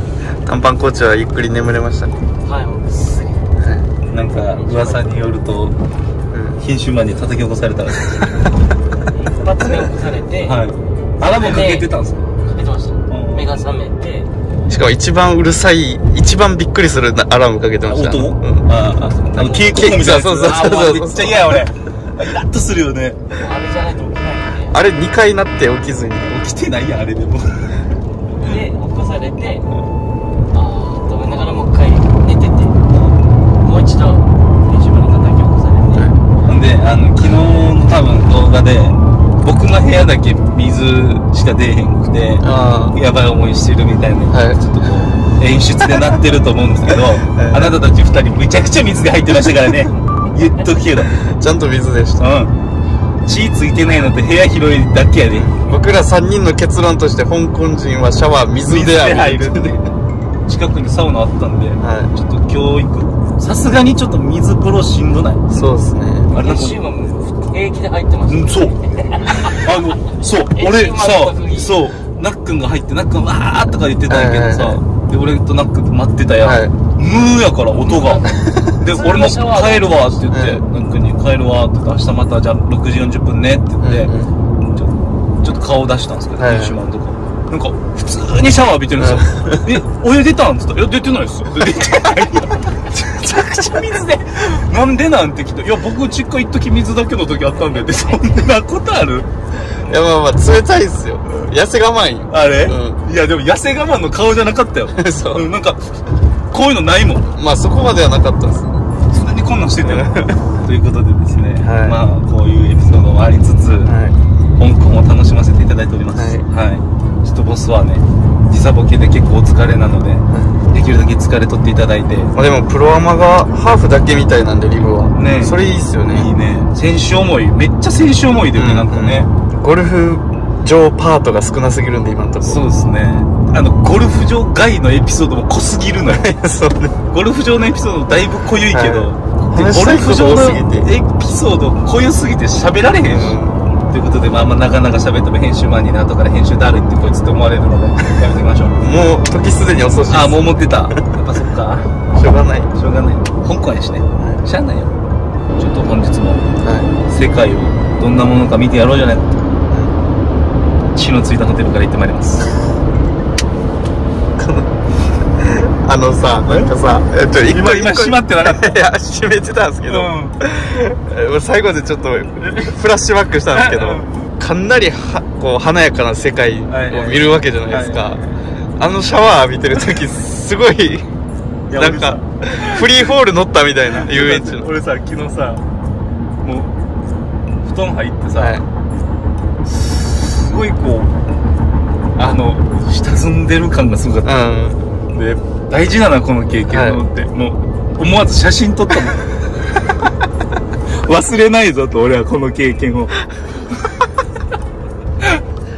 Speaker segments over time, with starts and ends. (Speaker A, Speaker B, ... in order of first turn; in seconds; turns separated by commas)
Speaker A: 0.4-2.1, Speaker B: 2.4-3.5, Speaker A: 3.6-3.9, Speaker C: 4.1-5.8, Speaker B: 4.3-5.1, Speaker A: 6.3-6.6, Speaker C: 6.6-8.2, Speaker B: 9.1-10.6, Speaker C: 10.4-12.4, Speaker B: 11.2-11.9, Speaker B: 12.4-14.3, Speaker C: 13.1-13.6, Speaker A: 14.7-18.7, Speaker C: 17.8-23.3, Speaker B: 18.9-19.9, Speaker A: 19.6-21.6, Speaker B: 23.3-24.8, Speaker A: 24.7-26.4, Speaker C: 26.3-27.8, Speaker B: 28.4-29.7, Speaker B: 30.5-32.8, Speaker C: 32.9-33.1, Speaker B: 33.6-36.1, Speaker C: 36.5-51.1, Speaker A: 42.4-43.0, Speaker A: 44.3-44.6, Speaker A: 47.3-47.8, Speaker A: 51.1-52.3, Speaker C: 52.2-52.5, Speaker C: 53.2-55.5, Speaker A: 55.3-59.9, Speaker C: 58.6-59.8, Speaker C: 60.5-65.4, Speaker A: 61.8-62.1, Speaker A: 65.5-66.3, Speaker C: 66.3-66.8, Speaker B: 66.3-69.7, Speaker C: 68.3-68.8, Speaker C: 69.3-78.2, Speaker B: 70.5-71.8, Speaker A: 74.1-74.8, Speaker A: 76.4-76.8, Speaker B: 77.8-80.2, Speaker A: 78.3-78.8, Speaker C: 78.8-99.3, Speaker A: 80.3-80.6, Speaker A: 83.8-84.3, Speaker A: 86.4-86.8, Speaker A: 89.0-89.7, Speaker A: 99.8-103.0, Speaker C: 102.3-106.0, Speaker A: 104.9-105.5, Speaker C: 106.5-107.3, Speaker A: 107.3-108.8, Speaker C: 109.1-113.9, Speaker A: 109.8-110.3, Speaker A: 111.6-112.0, Speaker A: 113.8-114.2, Speaker C: 114.6-122.3, Speaker A: 116.1-116.5, Speaker A: 120.3-120.6, Speaker A: 122.3-126.3, Speaker C: 125.1-129.3, Speaker A: 128.5-132.6, Speaker C: 132.4-136.3, Speaker A: 136.1-137.0, Speaker C: 137.1-148.8, Speaker A: 138.7-140.9, Speaker A: 143.1-143.7, Speaker A: 148.8-151.0, Speaker C: 150.1-152.0, Speaker A: 152.1-152.7, Speaker C: 152.8-154.9, Speaker A: 154.2-154.4, Speaker C: 155.6-156.4, Speaker A: 156.6-156.9, Speaker C: 157.1-159.4, Speaker A: 159.7-159.9, Speaker C: 160.9-162.7, Speaker A: 164.4-164.7, Speaker A: 165.3-178.2, Speaker C: 166.5-166.8, Speaker C: 167.4-168.8, Speaker C: 169.9-170.4, Speaker C: 172.5-172.7, Speaker C: 173.5-174.3, Speaker C: 176.7-178.4, Speaker A: 178.8-181.1, Speaker C: 181.7-183.1, Speaker A: 181.8-184.7, Speaker C: 183.9-185.6, Speaker C: 186.4-186.7, Speaker C: 187.6-188.6, Speaker A: 188.4-188.7, Speaker C: 189.6-191.1, Speaker C: 192.2-194.4, Speaker A: 194.2-194.8, Speaker C: 195.1-199.6, Speaker A: 196.7-197.0, Speaker C: 200.9-203.2